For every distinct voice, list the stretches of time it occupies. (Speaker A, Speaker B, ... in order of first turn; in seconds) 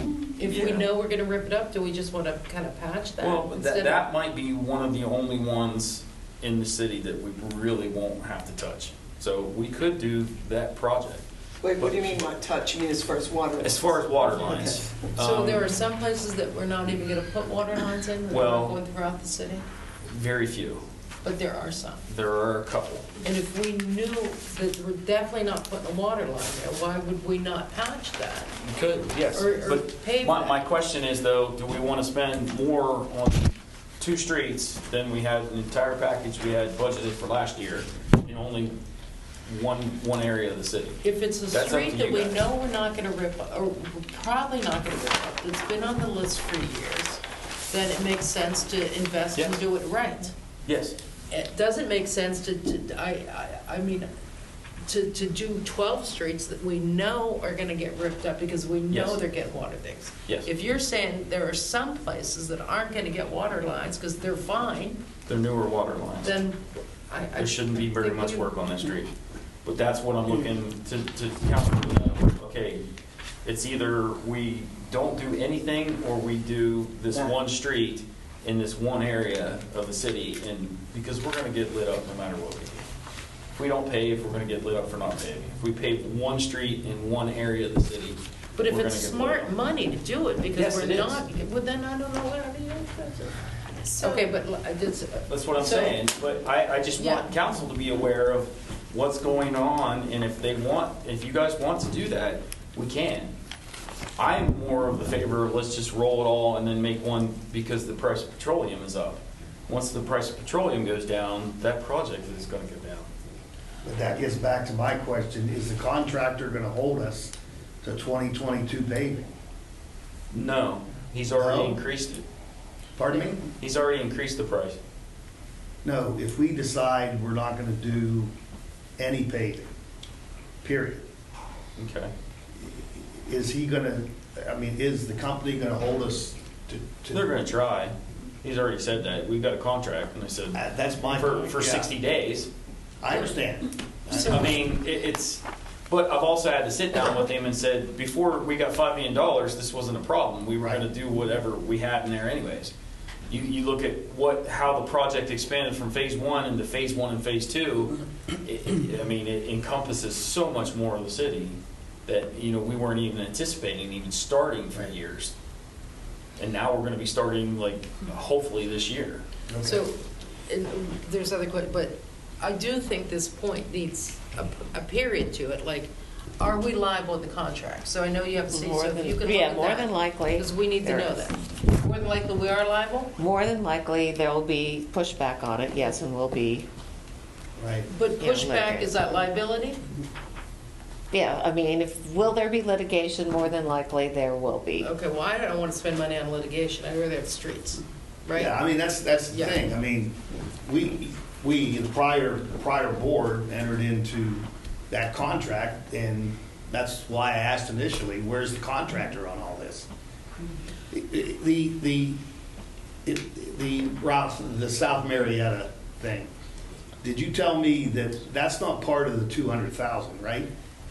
Speaker A: 0.3-4.0, 15.2-19.6, 21.2-22.0, 23.2-28.5, 29.3-30.6, 41.0-50.3, 51.3-54.1, 54.9-65.0, 66.2-68.5, 88.6-96.0, 97.0-97.3, 169.6-183.2, 187.9-189.8, 194.8-198.5, 199.3-199.6
Speaker B: 0.4-0.9, 3.2-11.2, 11.8-12.2, 13.6-15.7, 18.3-18.8, 20.1-20.8, 22.1-23.1, 28.6-38.8, 39.5-42.4, 50.6-51.0, 58.9-59.2, 65.2-66.3, 67.4-69.1, 69.6-72.8, 73.4-82.8, 83.6-89.5, 90.5-91.2, 95.3-103.3, 104.2-113.1, 120.3-122.2, 123.5-124.8, 131.8-132.1, 137.1-142.5, 144.1-152.7, 153.3-165.3, 166.4-169.2
Speaker C: 11.6-14.8
Speaker D: 113.8-119.3, 121.3-121.8, 123.0-123.4, 125.8-128.3, 129.0-129.7, 130.6-131.0, 132.6-137.3, 140.5-141.9, 143.0-144.6, 169.5-169.9, 187.6-187.9, 198.3-200.1, 200.7-209.9, 210.9-212.2, 213.1-216.3, 217.0-220.5
Speaker E: 178.5-181.2, 183.2-186.7, 188.2-188.9, 191.1-194.9